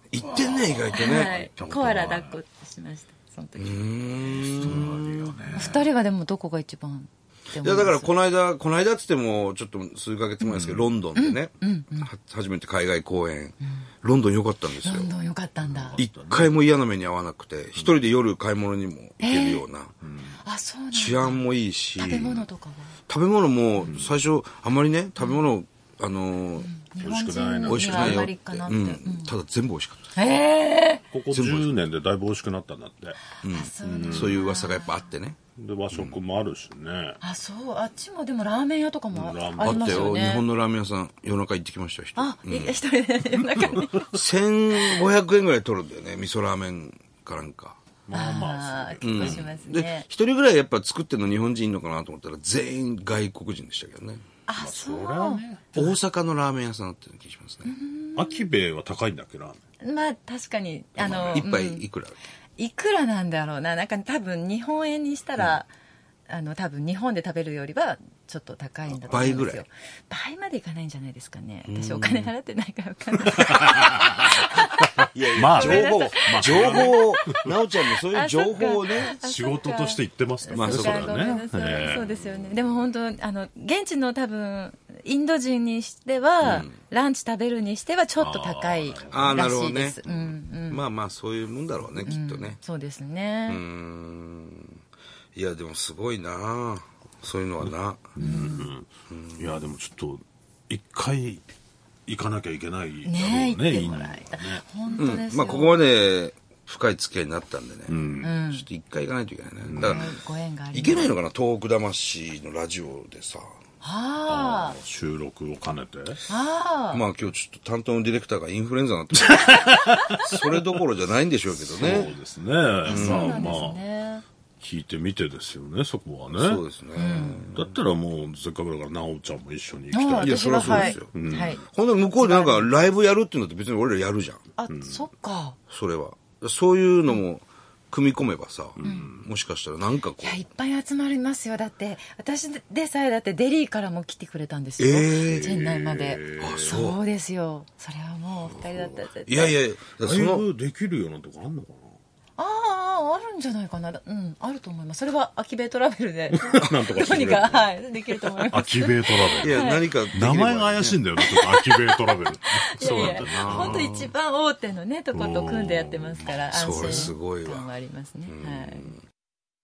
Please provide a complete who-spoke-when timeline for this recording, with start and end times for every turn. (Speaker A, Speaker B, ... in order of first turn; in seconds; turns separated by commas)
Speaker A: 0.1-1.4, Speaker B: 0.2-2.4, Speaker C: 0.9-4.4, Speaker A: 3.6-5.4, Speaker B: 4.2-5.8, Speaker C: 5.5-8.1, Speaker A: 7.6-15.1, Speaker B: 10.4-10.9, Speaker C: 11.1-12.1, Speaker C: 13.6-13.9, Speaker C: 14.8-16.0, Speaker B: 15.6-16.6, Speaker A: 15.9-19.9, Speaker C: 19.2-19.6, Speaker B: 20.0-20.4, Speaker C: 20.3-23.0, Speaker A: 20.9-22.5, Speaker A: 23.1-26.7, Speaker B: 23.9-24.1, Speaker C: 26.6-29.3, Speaker B: 27.0-28.3, Speaker A: 27.6-30.1, Speaker C: 30.1-31.1, Speaker B: 31.1-33.2, Speaker A: 31.3-31.7, Speaker A: 33.4-35.4, Speaker C: 33.5-35.0, Speaker B: 33.8-34.4, Speaker B: 35.5-37.2, Speaker C: 37.2-40.5, Speaker B: 39.1-40.2, Speaker A: 39.6-42.8, Speaker C: 42.1-44.1, Speaker A: 43.6-47.8, Speaker C: 44.8-45.0, Speaker B: 48.1-49.5, Speaker C: 48.1-50.1, Speaker A: 49.0-54.2, Speaker C: 54.5-56.0, Speaker B: 54.6-55.7, Speaker A: 55.7-57.7, Speaker C: 57.6-58.5, Speaker B: 58.1-59.6, Speaker C: 59.8-61.9, Speaker A: 61.0-62.2, Speaker B: 61.0-61.4, Speaker C: 62.6-65.7, Speaker C: 66.3-74.9, Speaker A: 69.1-69.6, Speaker B: 69.1-69.5, Speaker A: 71.7-72.3, Speaker B: 73.7-74.3, Speaker A: 75.1-79.1, Speaker B: 75.3-77.5, Speaker C: 75.5-77.1, Speaker C: 78.1-90.8, Speaker B: 79.1-82.4, Speaker A: 80.5-81.2, Speaker A: 86.4-86.7, Speaker B: 88.2-89.5, Speaker A: 89.1-90.0, Speaker B: 90.0-90.3, Speaker A: 90.7-92.6, Speaker C: 92.0-93.6, Speaker A: 93.5-94.8, Speaker A: 95.3-98.2, Speaker B: 98.2-101.4, Speaker C: 98.2-98.7, Speaker A: 99.1-99.5, Speaker B: 102.0-104.6, Speaker C: 103.0-105.8, Speaker A: 105.0-110.1, Speaker B: 107.9-108.3, Speaker C: 108.2-108.7, Speaker B: 109.6-110.1, Speaker C: 109.8-111.1, Speaker A: 110.7-113.5, Speaker B: 110.8-111.1, Speaker C: 113.8-114.8, Speaker B: 114.3-116.2, Speaker C: 116.3-117.0, Speaker A: 116.9-122.1, Speaker B: 119.4-120.4, Speaker B: 121.7-123.8, Speaker C: 122.8-124.2, Speaker A: 122.8-123.5, Speaker B: 124.6-126.6, Speaker A: 126.3-127.7, Speaker C: 126.9-127.5, Speaker B: 127.5-131.6, Speaker C: 129.9-131.7, Speaker A: 130.2-134.4, Speaker C: 132.2-132.7, Speaker C: 134.6-135.6, Speaker B: 134.7-135.0, Speaker A: 135.7-140.4, Speaker B: 138.8-139.3, Speaker C: 138.8-139.1, Speaker C: 140.2-149.6, Speaker A: 144.8-145.6, Speaker B: 145.2-146.8, Speaker A: 146.4-147.0, Speaker B: 148.5-149.0, Speaker A: 149.3-150.4, Speaker B: 150.0-152.0, Speaker C: 152.4-159.9, Speaker B: 156.3-163.9, Speaker A: 159.4-161.0, Speaker C: 161.2-168.9, Speaker A: 162.8-164.1, Speaker B: 165.1-167.1, Speaker A: 166.5-167.7, Speaker A: 168.2-169.0